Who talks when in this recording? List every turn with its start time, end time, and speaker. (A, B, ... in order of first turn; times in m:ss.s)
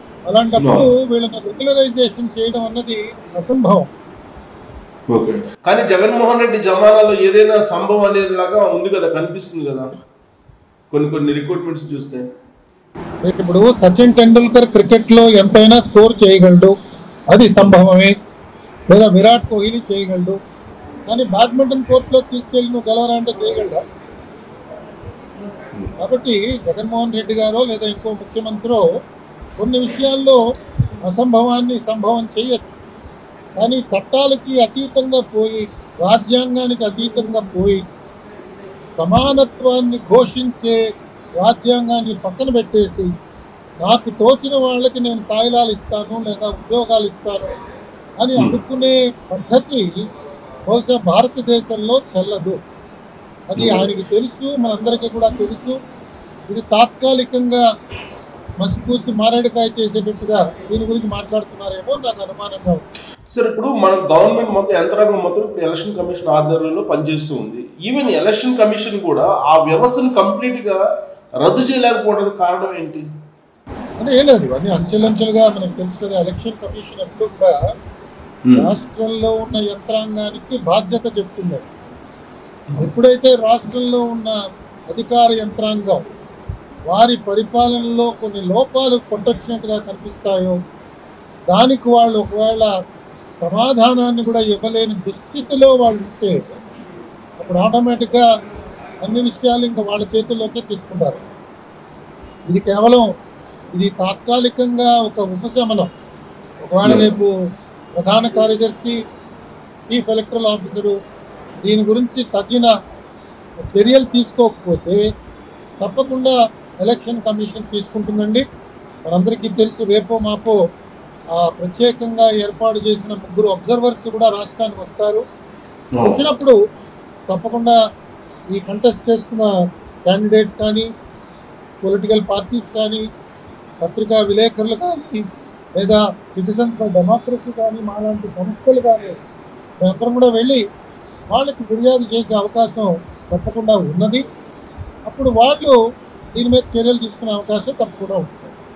0:00.3-0:03.8 A
0:00.6-0:00.9 B
0:05.1-0:09.9 B
0:10.9-0:12.3 B
0:13.2-0:16.7 A
0:17.3-0:18.1 A
0:18.9-0:20.4 A
0:21.1-0:23.8 A
0:26.0-0:28.8 A
0:29.6-0:30.4 A
0:31.0-0:32.8 A
0:33.6-0:37.8 A
0:39.0-0:40.8 A
0:41.4-0:43.1 A
0:43.8-0:47.5 A
0:48.2-0:49.8 A
0:50.7-0:52.6 A
0:53.5-0:55.8 A
0:53.6-0:53.9 B
0:56.5-0:57.6 A
0:58.6-1:02.8 A
1:03.3-1:10.8 B
1:11.4-1:13.0 B
1:14.0-1:17.6 A
1:18.6-1:21.6 A
1:22.8-1:24.3 A
1:24.9-1:26.0 A
1:26.9-1:30.6 A
1:31.5-1:32.7 A
1:33.4-1:36.4 A
1:37.4-1:38.2 A
1:39.0-1:41.2 A
1:42.5-1:43.1 A
1:43.7-1:45.9 A
1:46.6-1:47.3 A
1:46.8-1:47.1 B
1:48.0-1:49.0 A
1:49.9-1:50.9 A
1:51.6-1:52.7 A
1:53.6-1:55.0 A
1:55.8-1:58.4 A
1:59.0-2:00.6 A
2:01.4-2:05.2 A
2:06.0-2:06.2 B
2:06.1-2:06.6 A
2:07.3-2:07.8 A
2:08.5-2:09.5 A
2:10.1-2:10.9 A
2:11.8-2:13.0 A
2:13.8-2:15.2 A
2:15.7-2:19.2 A
2:19.8-2:20.6 A
2:21.3-2:24.2 A
2:25.0-2:25.8 A
2:26.3-2:28.5 A